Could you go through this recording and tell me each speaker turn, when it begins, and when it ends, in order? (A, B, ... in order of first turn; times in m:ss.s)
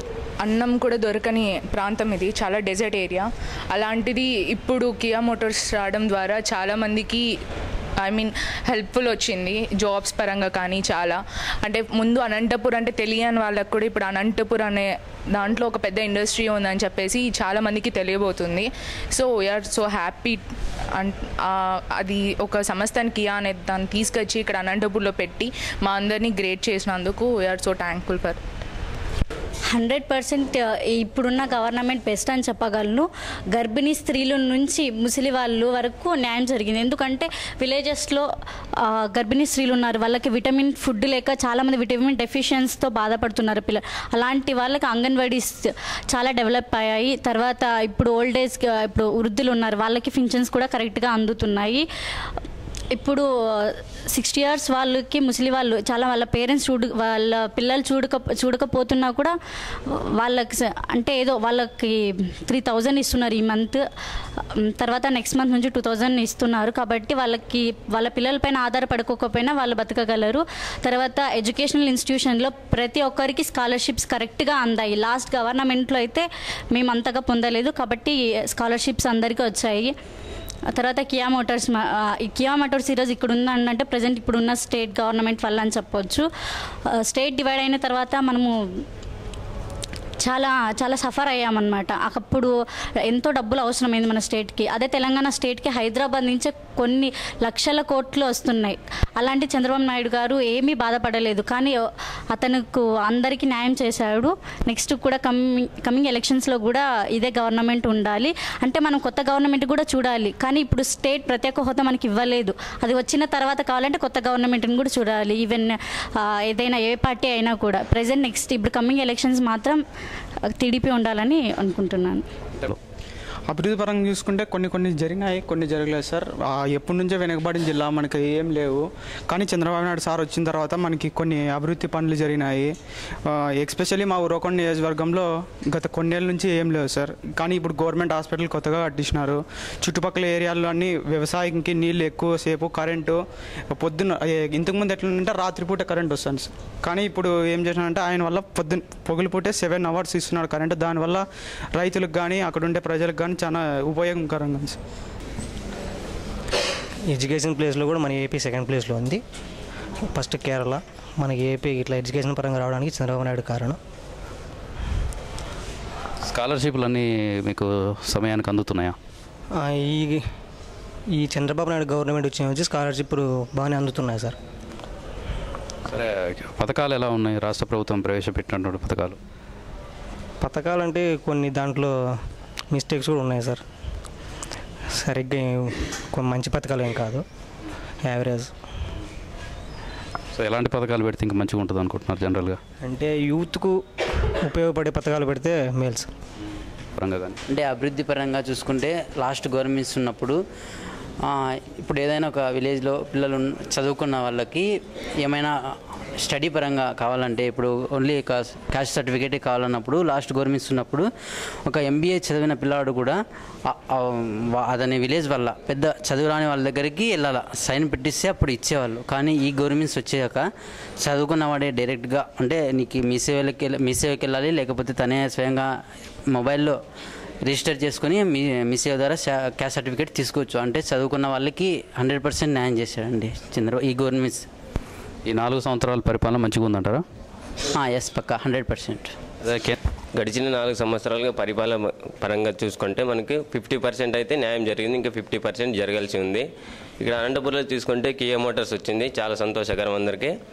0:00.4-0:07.2 A
0:08.0-0:20.4 A
0:22.0-0:28.4 A
0:29.7-0:38.3 B
0:38.8-0:51.8 B
0:52.9-0:59.4 B
0:59.9-1:03.8 B
1:04.6-1:19.9 B
1:20.7-1:26.3 B
1:27.0-1:28.5 B
1:30.2-1:32.5 B
1:33.1-1:41.8 B
1:42.3-1:59.8 B
2:00.6-2:02.2 B
2:03.5-2:12.7 C
2:13.3-2:23.2 C
2:23.7-2:34.8 C
2:37.1-2:39.2 D
2:40.1-2:43.8 D
2:46.3-2:49.0 E
2:49.5-2:50.2 D
2:51.1-2:54.4 D
2:55.9-2:59.2 E
3:00.4-3:02.0 D
3:02.7-3:03.6 D
3:05.0-3:07.2 D
3:08.0-3:08.5 D
3:10.4-3:12.6 E
3:12.8-3:13.8 D
3:14.4-3:16.1 D
3:17.0-3:17.4 E
3:17.5-3:20.4 F
3:21.2-3:24.7 F
3:25.2-3:25.6 F
3:26.2-3:31.1 F
3:31.6-3:40.5 F
3:41.0-3:45.7 F
3:46.3-3:46.8 F
3:47.4-3:54.5 F
3:55.3-3:57.0 E
3:57.7-3:59.1 F
3:59.4-3:59.8 E
4:00.1-4:06.5 G
4:07.0-4:10.3 G